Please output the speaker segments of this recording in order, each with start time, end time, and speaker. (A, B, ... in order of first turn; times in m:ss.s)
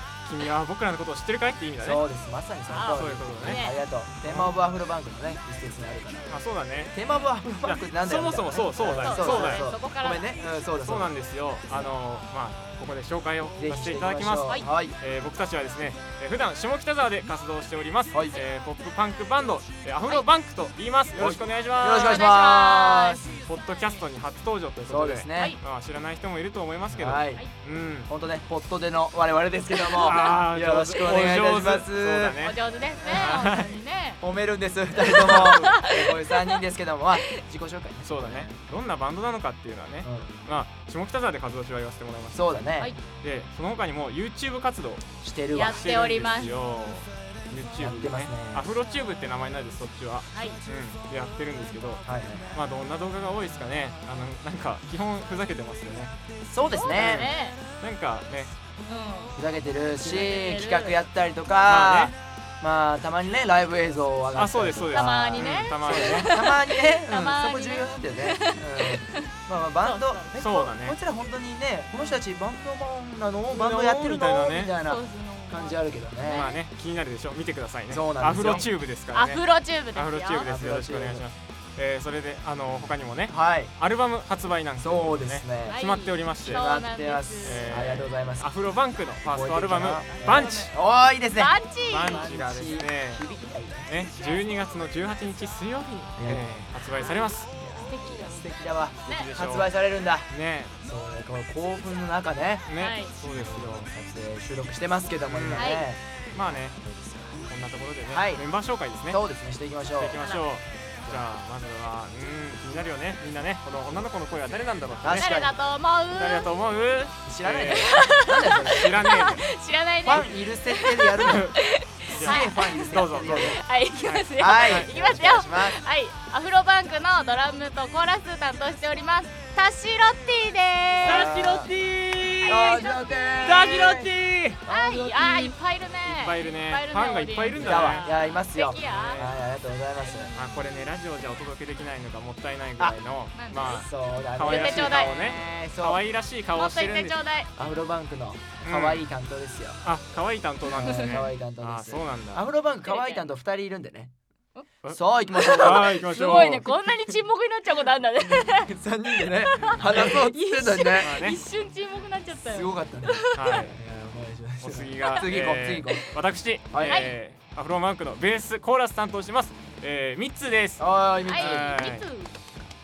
0:00.2-0:02.0 A
0:01.8-0:06.4 B
0:02.7-0:03.8 C
0:02.8-0:03.7 A
0:04.2-0:04.5 A
0:06.3-0:06.9 A
0:06.9-0:11.1 B
0:07.6-0:09.6 A
0:09.0-0:10.3 C
0:10.8-0:22.4 A
0:13.6-0:15.0 B
0:18.1-0:18.4 B
0:21.2-0:23.3 B
0:21.9-0:23.4 C
0:23.4-0:28.1 A
0:24.9-0:25.6 B
0:26.9-0:27.4 B
0:28.1-0:32.4 B
0:30.0-0:33.7 A
0:32.4-0:34.2 C
0:34.2-0:38.6 B
0:35.0-0:36.4 C
0:35.1-0:35.7 A
0:38.0-0:42.6 A
0:40.0-0:40.4 B
0:42.3-0:42.9 B
0:43.2-0:45.0 A
0:45.2-0:45.9 B
0:45.5-0:46.6 C
0:45.6-0:56.1 A
0:47.8-0:48.7 B
0:50.3-0:50.6 C
0:52.0-0:52.6 B
0:56.5-0:57.3 B
0:56.6-0:57.6 C
0:57.0-0:58.5 A
0:58.9-0:59.4 C
0:59.4-1:16.5 B
1:00.0-1:01.0 C
1:01.6-1:02.1 A
1:04.3-1:06.3 A
1:04.9-1:09.3 C
1:09.8-1:10.4 C
1:10.4-1:11.0 A
1:11.9-1:12.2 C
1:13.5-1:14.7 A
1:14.8-1:16.6 C
1:16.2-1:26.8 A
1:17.9-1:18.7 B
1:18.4-1:20.5 C
1:20.4-1:21.2 B
1:23.3-1:23.7 B
1:24.8-1:25.8 B
1:25.6-1:27.8 C
1:26.4-1:28.5 B
1:27.4-1:30.7 A
1:29.2-1:33.9 B
1:30.2-1:30.7 C
1:31.3-1:32.3 C
1:31.8-1:33.2 A
1:33.9-1:37.5 A
1:36.2-1:36.7 B
1:37.6-1:40.3 B
1:37.8-1:38.4 C
1:39.1-1:39.7 A
1:40.3-1:40.7 A
1:40.8-1:42.7 B
1:42.7-1:43.9 A
1:42.7-1:43.1 C
1:43.2-1:47.4 B
1:45.2-1:45.8 A
1:45.5-1:45.8 C
1:46.3-1:46.8 A
1:47.5-1:49.2 A
1:48.1-1:48.4 B
1:49.1-1:50.2 B
1:50.0-1:55.3 A
1:50.2-1:50.4 C
1:55.0-1:55.6 B
1:55.1-1:56.5 C
1:56.1-1:59.4 A
1:57.2-1:58.9 B
1:57.6-2:11.4 C
2:00.0-2:01.6 B
2:01.2-2:01.5 A
2:02.1-2:03.6 B
2:02.1-2:05.2 A
2:04.4-2:05.8 B
2:11.0-2:12.8 A
2:11.0-2:11.7 B
2:12.4-2:13.7 C
2:12.4-2:14.1 B
2:13.4-2:14.6 A
2:14.6-2:15.5 B
2:14.6-2:19.3 C
2:16.0-2:18.1 A
2:17.6-2:20.3 B
2:18.8-2:19.4 A
2:20.0-2:20.7 C
2:20.3-2:27.2 A
2:23.3-2:23.9 C
2:23.6-2:26.0 B
2:24.4-2:25.2 C
2:26.5-2:27.5 C
2:27.6-2:29.8 B
2:28.6-2:29.0 A
2:29.8-2:32.4 A
2:30.7-2:34.1 B
2:30.7-2:31.2 C
2:32.8-2:33.3 C
2:34.8-2:36.7 A
2:34.9-2:36.0 B
2:35.3-2:43.7 C
2:38.2-2:41.2 B
2:39.8-2:40.1 A
2:41.0-2:41.4 A
2:42.4-2:46.1 B
2:43.3-2:43.8 A
2:44.6-2:52.1 A
2:46.7-2:47.1 B
2:46.8-2:47.2 C
2:50.8-2:51.9 B
2:51.2-2:52.3 C